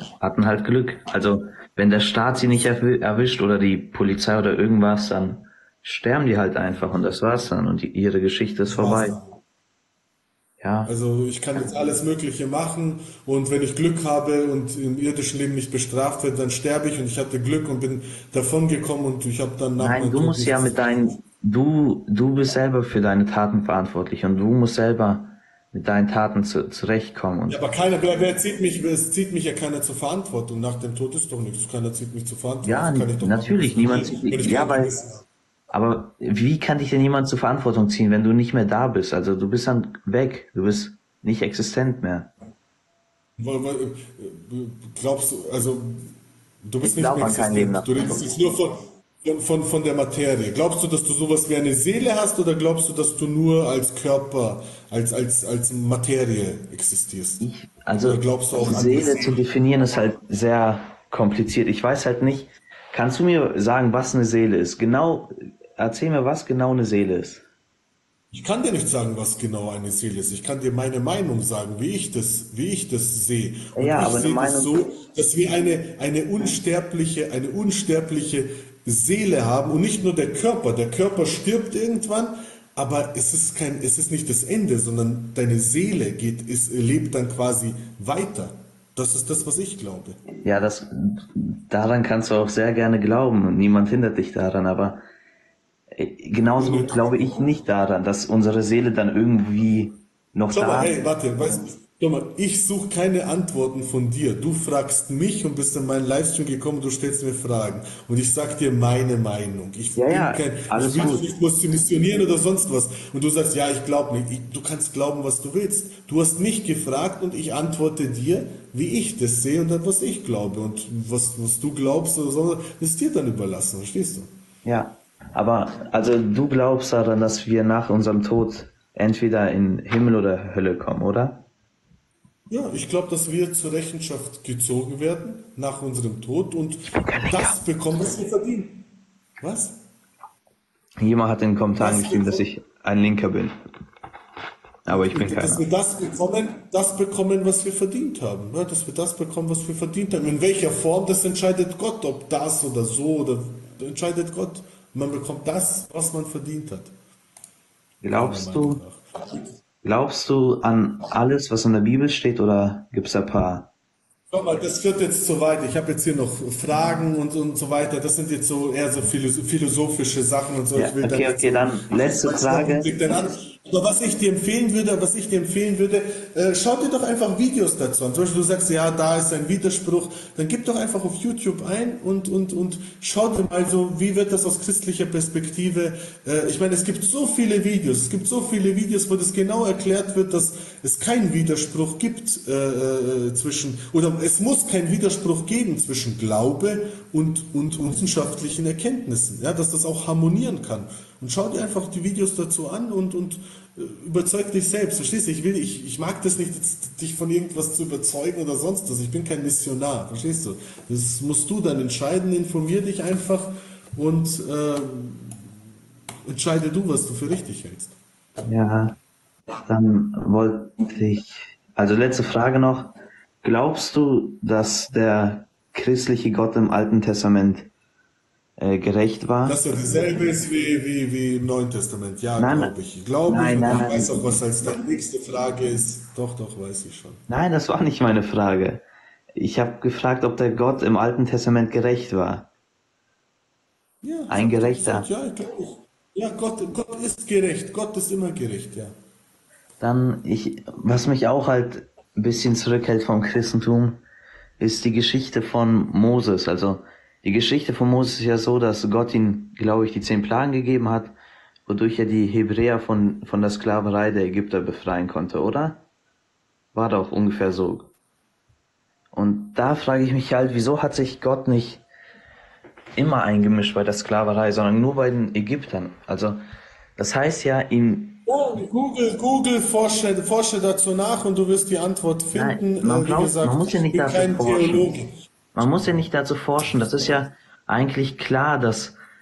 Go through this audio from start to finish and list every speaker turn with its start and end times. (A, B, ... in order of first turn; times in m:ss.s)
0:00.2-0:09.2 A
0:08.6-0:09.4 B
0:10.6-0:10.9 A
0:10.9-0:21.2 B
0:19.8-0:27.6 A
0:27.5-0:35.2 B
0:32.6-0:35.0 A
0:35.7-0:42.3 A
0:43.4-0:46.1 B
0:46.6-0:59.5 B
0:46.8-0:48.3 A
0:57.4-1:07.5 A
1:08.3-1:30.2 B
1:13.8-1:14.8 A
1:30.4-1:35.1 A
1:35.9-1:41.0 A
1:36.4-1:37.5 B
1:40.5-2:04.3 B
1:50.0-1:51.3 A
2:04.6-2:11.5 A
2:12.5-2:18.8 B
2:17.0-2:17.6 A
2:19.4-2:19.8 B
2:21.0-2:23.6 A
2:21.8-2:22.4 B
2:24.9-2:25.6 A
2:24.9-2:36.9 B
2:38.0-2:38.8 A
2:38.1-2:39.0 B
2:39.8-2:43.7 A
2:44.3-3:35.4 B
2:50.8-2:52.9 A
3:36.3-3:38.0 B
3:38.4-3:39.0 A
3:39.6-3:47.7 A
3:48.6-3:49.6 A
3:49.4-3:57.2 B
3:52.4-3:52.7 A
3:53.3-3:54.2 A
3:57.3-4:02.5 A
4:04.0-4:08.9 B
4:04.3-4:05.1 A
4:09.8-4:14.0 A
4:14.6-4:21.2 A
4:21.7-4:25.8 A
4:26.7-4:27.9 A
4:29.1-4:31.8 A
4:33.0-4:36.4 A
4:37.0-4:38.2 A
4:38.3-4:46.1 B
4:42.3-4:44.9 A
4:45.6-4:49.0 A